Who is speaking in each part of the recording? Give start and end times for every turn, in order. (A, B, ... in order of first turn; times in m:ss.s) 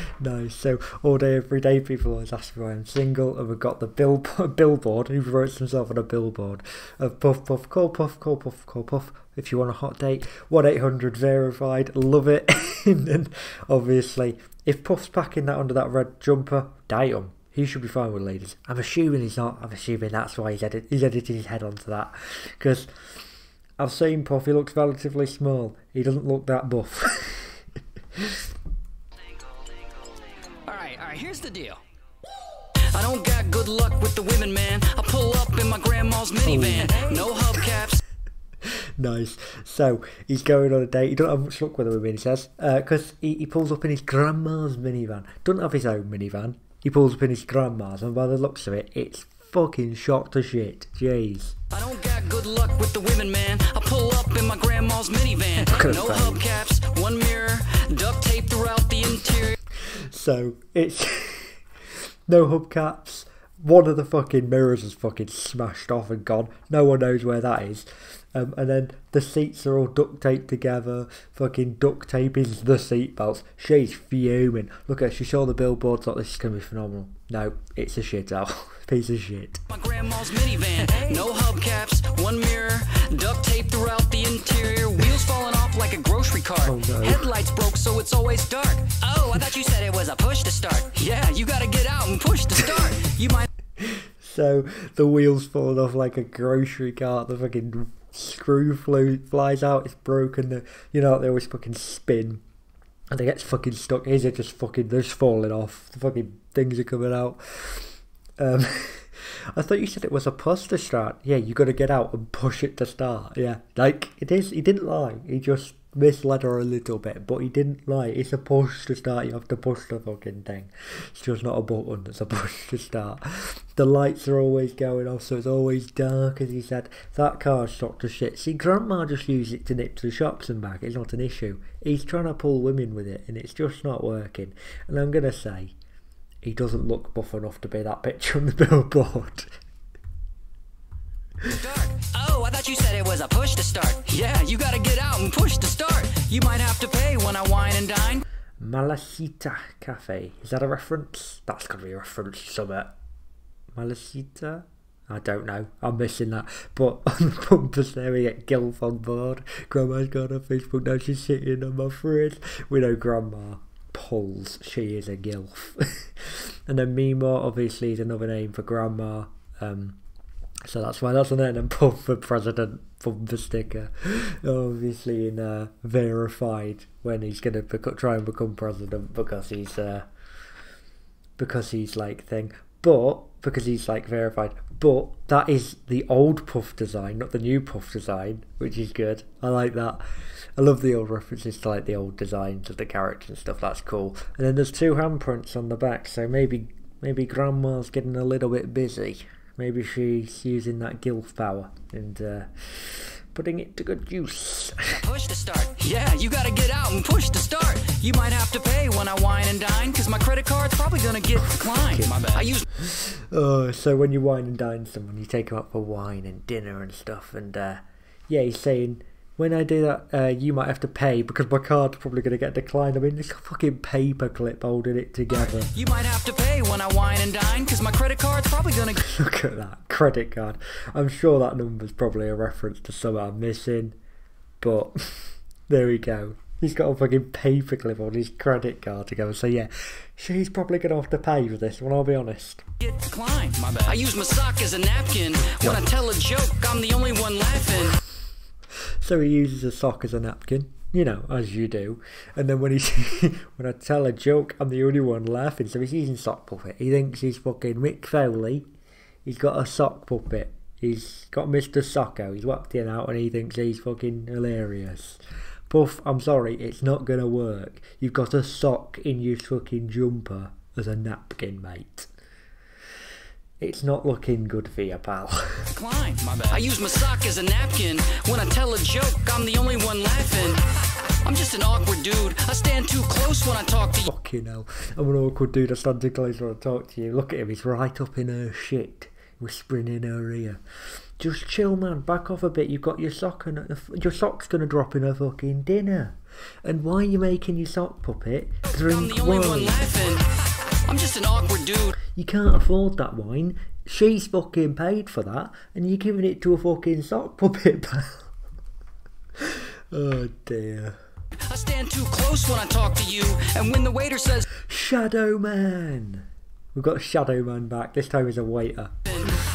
0:00.2-0:22.9 A
0:23.8-0:27.6 A
0:28.2-0:28.4 A
0:30.6-0:31.8 B
0:32.9-0:38.0 B
0:36.4-0:37.3 A
0:38.6-0:51.6 A
0:51.7-0:59.6 B
0:55.6-0:56.4 A
0:59.8-1:19.6 A
1:19.7-1:33.5 B
1:26.6-1:27.3 A
1:33.8-1:42.4 A
1:43.1-2:15.7 A
2:16.4-2:19.5 A
2:21.5-2:28.2 B
2:28.6-2:32.9 A
2:33.7-2:50.0 A
2:50.6-3:00.1 A
3:01.4-3:10.0 A
3:10.6-3:25.0 A
3:25.0-3:32.7 B
3:31.4-3:32.1 A
3:32.8-3:45.7 A
3:45.6-3:49.0 B
3:49.0-3:54.0 A
3:54.6-4:02.6 A
4:02.8-4:08.0 B
4:09.0-4:18.7 A
4:19.2-4:32.1 A
4:33.6-4:35.7 A
4:35.7-4:40.6 B
4:41.2-4:44.1 B
4:44.0-4:50.6 A
4:51.2-4:59.9 A
4:58.7-5:00.3 B
5:00.9-5:02.0 B
5:02.1-5:08.3 A
5:09.4-5:11.0 A
5:11.5-5:14.4 B
5:14.7-5:19.0 A
5:19.1-5:19.4 B